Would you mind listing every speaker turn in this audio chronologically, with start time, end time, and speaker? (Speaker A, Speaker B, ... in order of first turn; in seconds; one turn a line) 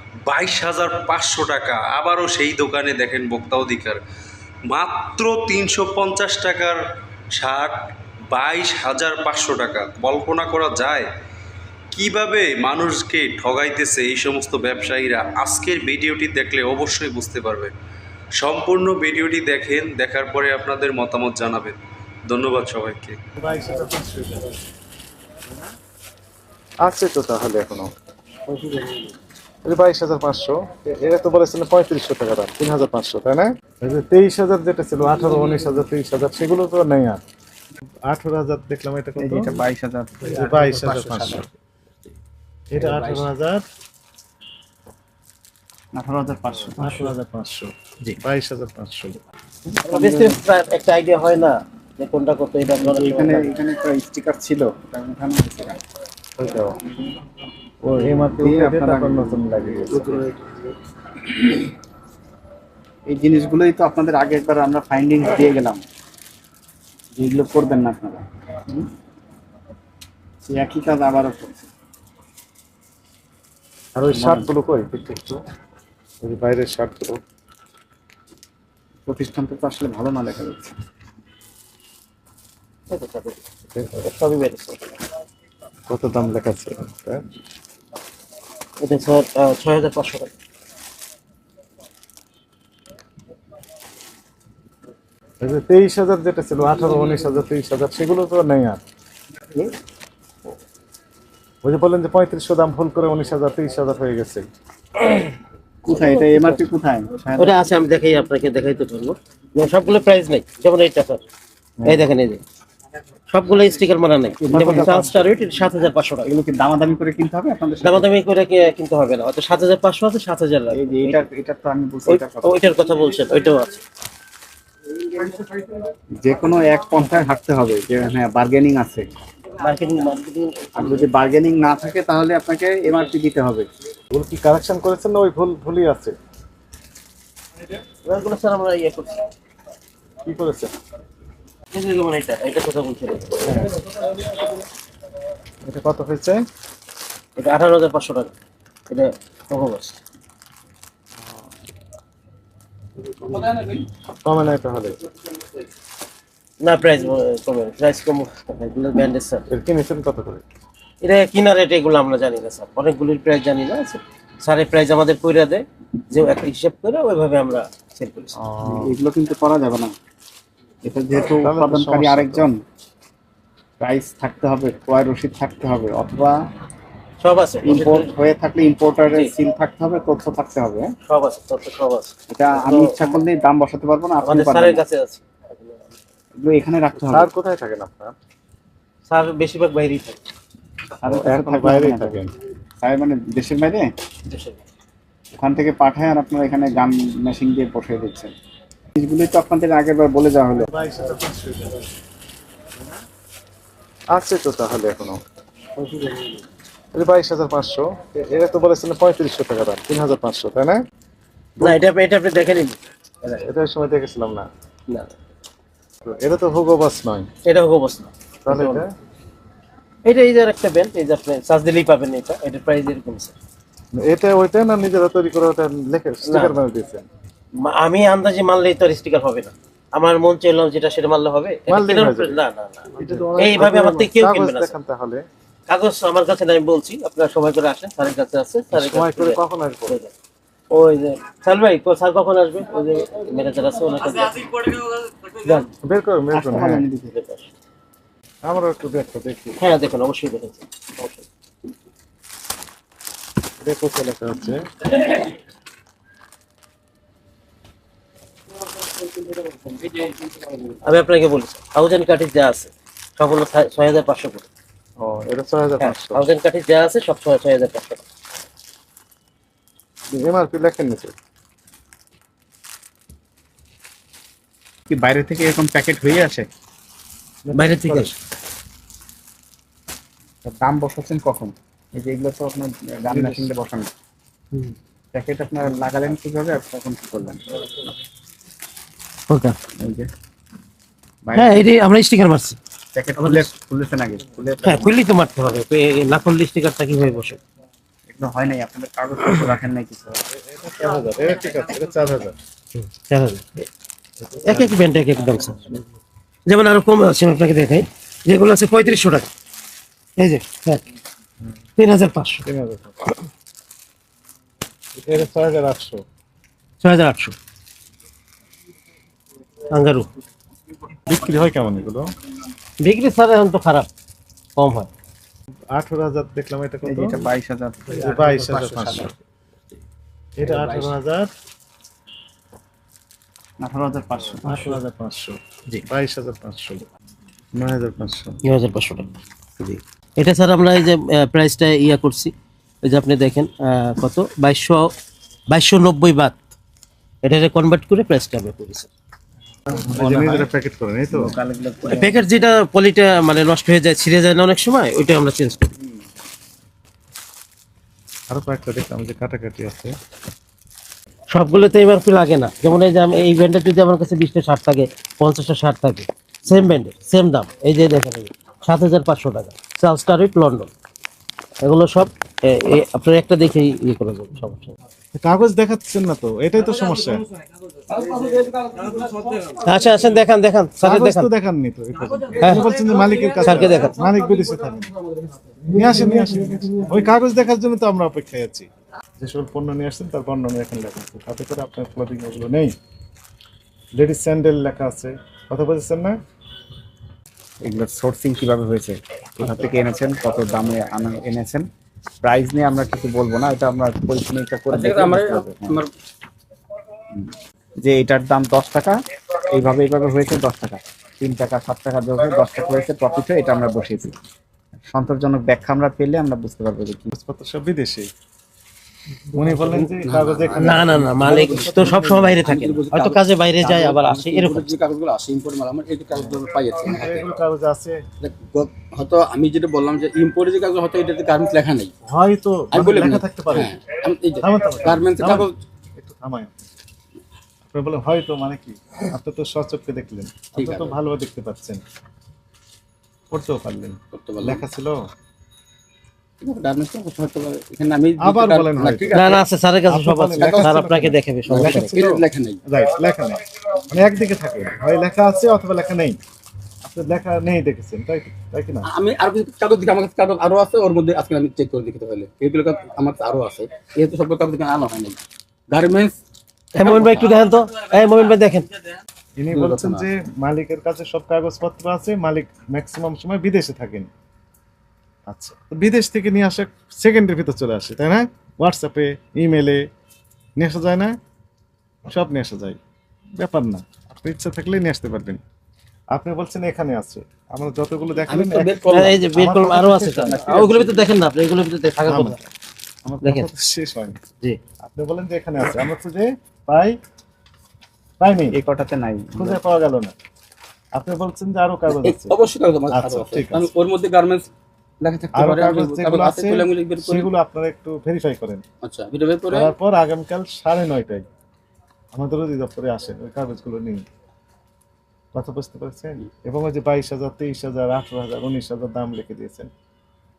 Speaker A: 0.2-4.0
Speaker A: 4.7-6.8
Speaker A: 7.3-7.7
Speaker A: 8.3-11.1
Speaker A: 11.9-17.7
Speaker A: 18.4-21.8
Speaker A: 22.3-23.1
Speaker B: 23.4-24.5
Speaker B: 26.8-27.9
Speaker C: 28.5-29.1
Speaker B: 29.6-37.2
Speaker B: 38.1-39.6
Speaker D: 39.2-40.4
Speaker E: 40.3-41.5
Speaker B: 40.4-41.5
Speaker B: 42.7-43.6
Speaker E: 42.8-43.3
Speaker D: 45.9-47.0
Speaker B: 46.8-49.2
Speaker D: 49.7-50.4
Speaker C: 49.8-53.5
Speaker D: 52.8-55.8
Speaker D: 56.4-56.7
Speaker B: 57.8-60.1
Speaker D: 58.4-60.2
Speaker D: 63.1-65.8
Speaker D: 67.2-68.8
Speaker D: 70.5-71.7
Speaker B: 74.0-75.4
Speaker D: 74.1-74.5
Speaker B: 76.2-77.2
Speaker D: 79.0-80.7
Speaker C: 82.9-83.4
Speaker C: 83.9-84.9
Speaker B: 85.9-87.2
Speaker C: 88.8-90.3
Speaker B: 95.4-98.8
Speaker B: 101.6-104.5
Speaker D: 105.8-107.6
Speaker C: 106.1-106.6
Speaker C: 107.4-111.2
Speaker C: 111.8-112.4
Speaker C: 113.3-116.3
Speaker D: 114.4-115.3
Speaker D: 116.2-118.1
Speaker C: 117.8-121.2
Speaker D: 120.7-122.6
Speaker C: 122.1-123.7
Speaker D: 126.2-129.1
Speaker C: 129.6-131.1
Speaker D: 130.8-133.7
Speaker B: 134.1-136.2
Speaker C: 138.0-139.2
Speaker B: 140.2-140.7
Speaker C: 141.7-143.7
Speaker B: 145.6-146.4
Speaker C: 147.3-148.3
Speaker C: 148.9-150.0
Speaker E: 153.4-153.7
Speaker B: 154.2-155.0
Speaker C: 156.6-159.5
Speaker B: 159.5-160.4
Speaker C: 161.0-168.3
Speaker B: 168.4-168.9
Speaker D: 168.6-169.9
Speaker D: 170.8-172.6
Speaker B: 171.4-172.5
Speaker D: 173.8-176.3
Speaker C: 177.2-178.1
Speaker D: 177.6-180.9
Speaker C: 181.1-183.1
Speaker D: 182.3-184.8
Speaker C: 184.2-185.7
Speaker D: 186.4-187.3
Speaker B: 187.1-188.1
Speaker C: 189.1-190.2
Speaker D: 191.0-192.3
Speaker B: 191.0-192.3
Speaker D: 192.8-193.9
Speaker C: 194.3-194.6
Speaker D: 195.3-198.3
Speaker D: 198.9-200.7
Speaker B: 200.6-201.8
Speaker B: 204.1-205.2
Speaker C: 205.8-206.4
Speaker B: 206.9-210.8
Speaker C: 211.6-212.8
Speaker B: 213.4-214.5
Speaker B: 216.0-217.3
Speaker C: 217.4-218.8
Speaker B: 218.4-218.9
Speaker C: 220.0-223.3
Speaker B: 223.9-227.0
Speaker C: 226.2-226.6
Speaker C: 227.6-234.7
Speaker B: 231.7-232.4
Speaker B: 232.9-235.2
Speaker C: 235.7-240.1
Speaker B: 238.7-240.0
Speaker C: 240.7-244.7
Speaker C: 245.3-245.7
Speaker B: 245.8-246.8
Speaker D: 246.3-247.2
Speaker C: 247.1-247.5
Speaker B: 248.4-249.6
Speaker C: 249.6-251.2
Speaker B: 253.6-254.6
Speaker C: 260.8-264.5
Speaker B: 265.0-266.3
Speaker C: 265.8-268.0
Speaker B: 270.1-271.1
Speaker D: 274.9-276.5
Speaker B: 277.4-278.2
Speaker C: 277.5-278.1
Speaker D: 280.4-283.9
Speaker B: 283.1-283.5
Speaker D: 285.1-287.4
Speaker C: 289.3-289.6
Speaker D: 289.8-290.1
Speaker D: 291.2-291.6
Speaker C: 291.3-292.6
Speaker D: 292.9-294.9
Speaker C: 293.2-293.5
Speaker C: 294.6-297.4
Speaker D: 298.1-300.2
Speaker B: 300.3-302.3
Speaker C: 302.8-303.5
Speaker B: 304.3-304.7
Speaker C: 304.4-305.8
Speaker C: 306.4-309.3
Speaker C: 310.2-310.8
Speaker C: 311.8-312.4
Speaker B: 312.4-313.0
Speaker B: 315.0-316.0
Speaker C: 316.8-317.3
Speaker C: 319.7-320.1
Speaker B: 321.1-322.1
Speaker C: 322.8-323.9
Speaker C: 324.6-324.9
Speaker B: 325.7-327.1
Speaker D: 326.8-328.0
Speaker E: 327.9-329.1
Speaker B: 328.0-329.1
Speaker B: 330.4-331.3
Speaker E: 330.4-330.9
Speaker D: 333.6-334.7
Speaker B: 334.4-336.8
Speaker B: 337.6-338.4
Speaker C: 338.4-342.3
Speaker C: 342.8-344.9
Speaker C: 345.5-346.4
Speaker C: 347.2-348.9
Speaker B: 349.7-351.3
Speaker D: 349.7-350.5
Speaker D: 351.1-352.3
Speaker C: 351.9-355.7
Speaker B: 358.3-359.9
Speaker C: 361.3-370.7
Speaker C: 371.6-374.7
Speaker B: 375.1-377.2
Speaker E: 377.9-379.6
Speaker C: 379.6-381.3
Speaker B: 380.8-384.9
Speaker C: 382.4-382.6
Speaker C: 383.4-383.9
Speaker B: 385.7-388.7
Speaker B: 389.2-392.7
Speaker B: 394.0-396.2
Speaker D: 397.6-401.6
Speaker D: 402.2-405.8
Speaker E: 404.7-405.9
Speaker D: 407.1-409.0
Speaker D: 409.5-414.1
Speaker D: 414.9-417.1
Speaker B: 417.1-418.1
Speaker B: 419.3-422.4
Speaker E: 419.7-427.3
Speaker C: 420.6-424.7
Speaker B: 426.8-428.0
Speaker E: 428.2-431.9
Speaker B: 432.1-433.8
Speaker E: 432.7-435.6
Speaker B: 434.4-436.6
Speaker B: 437.7-441.8
Speaker E: 440.5-440.9
Speaker B: 443.3-445.0
Speaker E: 444.1-444.6
Speaker E: 446.4-449.5
Speaker B: 448.2-449.2
Speaker C: 449.1-452.0
Speaker B: 449.9-456.2
Speaker E: 450.4-450.7
Speaker E: 451.5-452.6
Speaker B: 456.8-458.9
Speaker E: 458.8-465.2
Speaker E: 465.7-466.2
Speaker C: 466.7-468.7
Speaker E: 466.8-467.3
Speaker B: 469.4-474.1
Speaker E: 469.5-470.1
Speaker B: 475.3-479.8
Speaker B: 480.6-481.1
Speaker B: 482.1-482.8
Speaker B: 483.4-485.4
Speaker B: 486.1-488.8
Speaker E: 488.3-489.3
Speaker C: 488.9-492.4
Speaker B: 489.3-490.6
Speaker E: 490.3-491.0
Speaker B: 492.0-492.4
Speaker B: 493.2-494.2
Speaker B: 494.8-497.0
Speaker B: 498.2-498.6
Speaker D: 498.5-499.6
Speaker B: 499.4-500.1
Speaker B: 500.9-502.3
Speaker E: 501.9-504.5
Speaker B: 502.9-503.7
Speaker E: 505.0-507.3
Speaker B: 505.3-508.6
Speaker E: 508.8-509.7
Speaker B: 509.5-511.2
Speaker B: 512.1-514.0
Speaker B: 515.3-519.7